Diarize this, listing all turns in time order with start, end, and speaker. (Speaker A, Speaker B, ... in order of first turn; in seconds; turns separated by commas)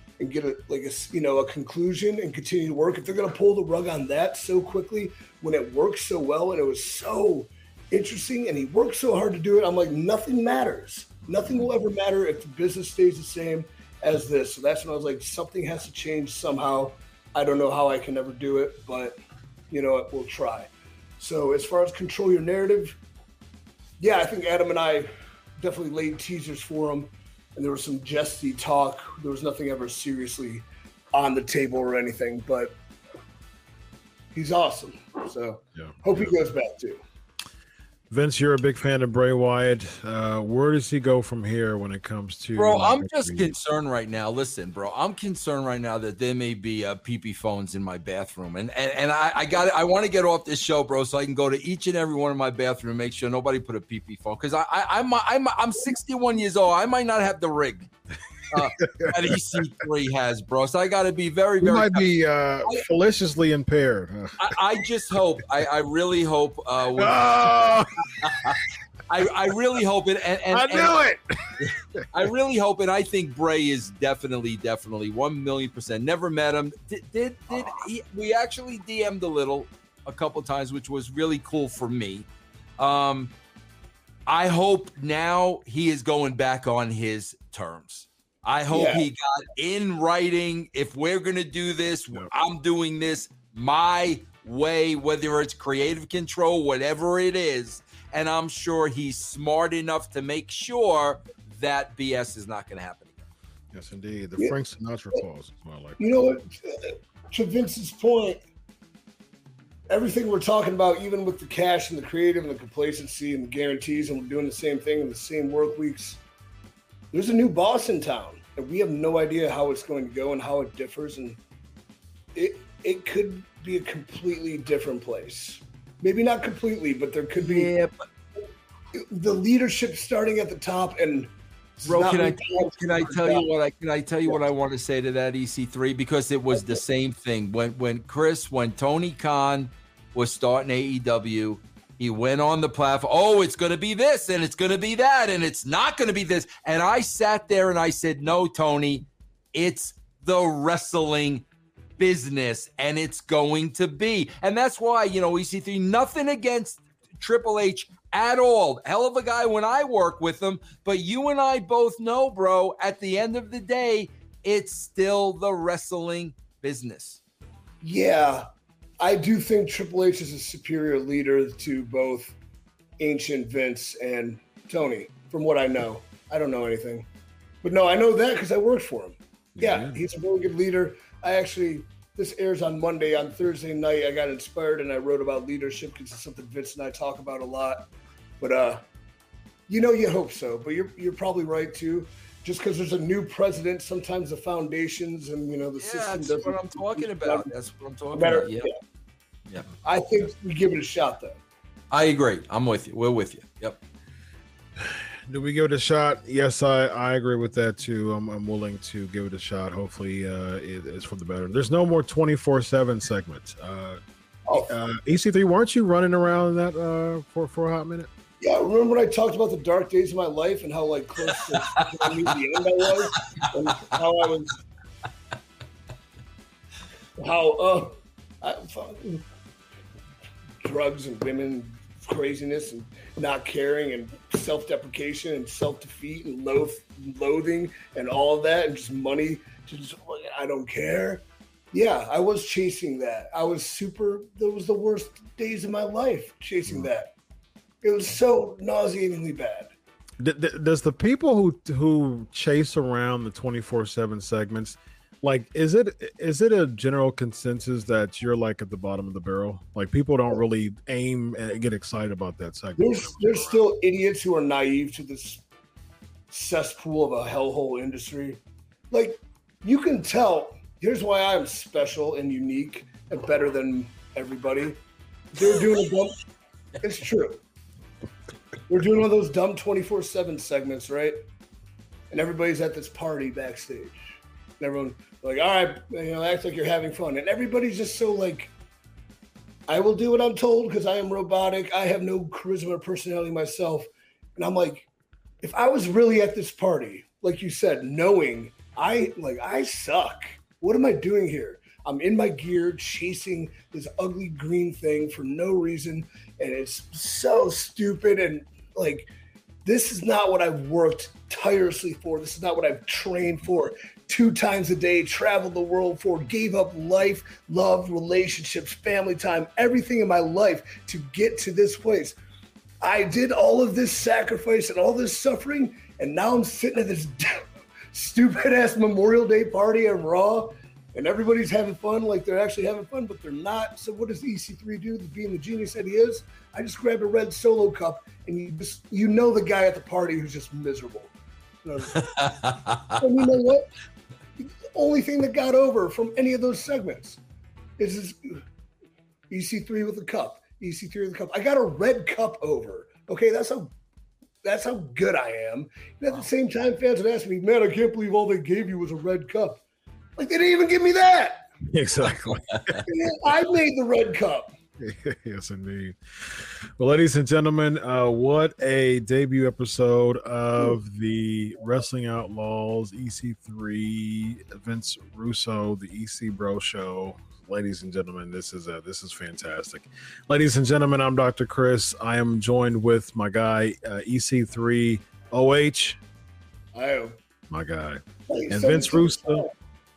Speaker A: 0.2-19.2, Speaker B: 11.4-11.7, Speaker A: 19.7-23.0, Speaker A: 24.0-32.8, Speaker A: 34.3-37.0, Speaker B: 35.8-36.3, Speaker B: 38.1-43.5, Speaker C: 42.6-57.9, Speaker C: 58.5-62.9, Speaker B: 58.8-59.4, Speaker B: 61.6-64.5, Speaker C: 64.4-68.6, Speaker B: 67.0-68.6, Speaker C: 69.1-71.0, Speaker B: 70.5-71.7, Speaker C: 72.1-82.3, Speaker C: 82.8-83.3, Speaker C: 84.3-103.2, Speaker A: 88.7-89.0, Speaker B: 103.7-106.3, Speaker A: 106.0-108.4, Speaker A: 109.9-116.2, Speaker A: 117.1-121.4, Speaker A: 122.3-127.7, Speaker C: 127.4-127.9, Speaker A: 128.9-133.5, Speaker C: 131.9-151.5, Speaker A: 136.5-136.8, Speaker C: 152.0-167.2, Speaker A: 167.8-168.5, Speaker A: 169.0-172.4, Speaker A: 173.0-177.1, Speaker A: 177.6-187.9, Speaker B: 179.6-180.0, Speaker A: 188.4-188.8, Speaker A: 189.7-197.5, Speaker C: 195.8-198.7, Speaker A: 198.1-198.7, Speaker A: 199.8-201.4, Speaker C: 201.9-203.8, Speaker B: 205.3-214.0, Speaker B: 214.5-218.1, Speaker A: 218.4-224.6, Speaker C: 221.3-221.9, Speaker C: 223.4-223.8, Speaker A: 227.2-229.2, Speaker A: 230.6-247.1, Speaker A: 247.8-249.7, Speaker B: 250.2-263.6, Speaker A: 262.8-265.4, Speaker A: 266.3-268.4, Speaker A: 268.9-274.8, Speaker A: 275.3-276.2, Speaker A: 276.8-277.4, Speaker A: 278.7-281.2, Speaker A: 282.1-284.0, Speaker A: 284.6-288.5, Speaker A: 289.7-294.9, Speaker A: 295.4-309.1, Speaker A: 309.6-322.2, Speaker A: 322.8-341.1, Speaker A: 341.6-342.3, Speaker C: 341.9-343.0, Speaker A: 343.0-343.7, Speaker A: 344.4-347.2, Speaker A: 347.8-348.4, Speaker A: 349.3-353.8, Speaker A: 354.4-359.6, Speaker A: 360.2-361.5, Speaker B: 361.7-362.8, Speaker C: 362.5-362.8, Speaker A: 362.8-364.5, Speaker B: 364.8-386.0, Speaker A: 386.7-387.2, Speaker B: 387.5-389.5, Speaker A: 388.3-389.5